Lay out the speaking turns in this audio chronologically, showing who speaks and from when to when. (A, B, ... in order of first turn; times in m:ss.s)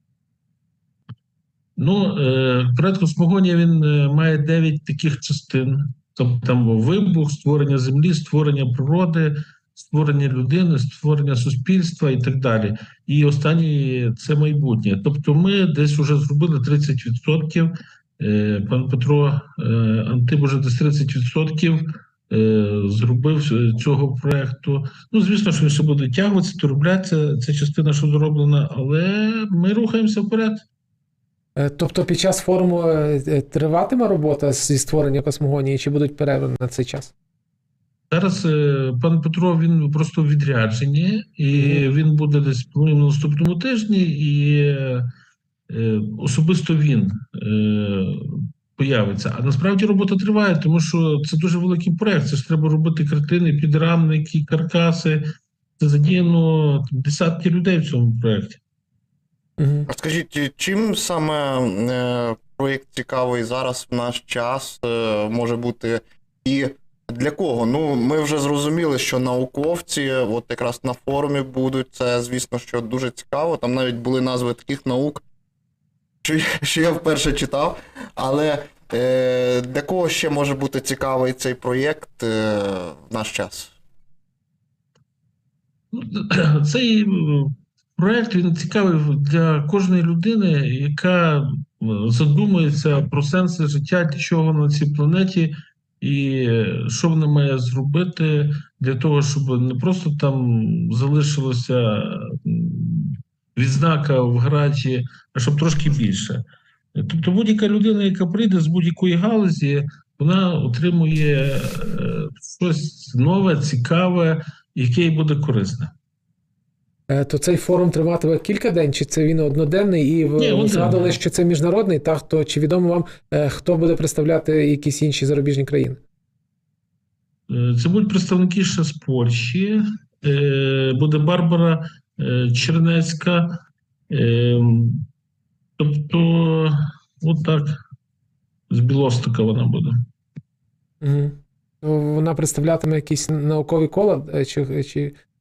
0:01.8-0:30.6 A
0:31.6-0:37.1 B
0:38.1-0:45.1 A
0:41.5-0:41.9 B
0:45.7-0:55.2 A
0:55.8-0:58.6 A
0:59.6-0:59.9 B
0:59.9-1:15.2 C
1:16.2-1:23.7 C
1:25.9-1:46.4 A
1:46.9-1:55.9 A
1:57.1-2:06.0 B
2:00.4-2:01.1 A
2:07.5-2:13.5 A
2:14.1-2:15.0 A
2:15.8-2:17.8 A
2:18.7-2:20.0 A
2:21.0-2:25.1 B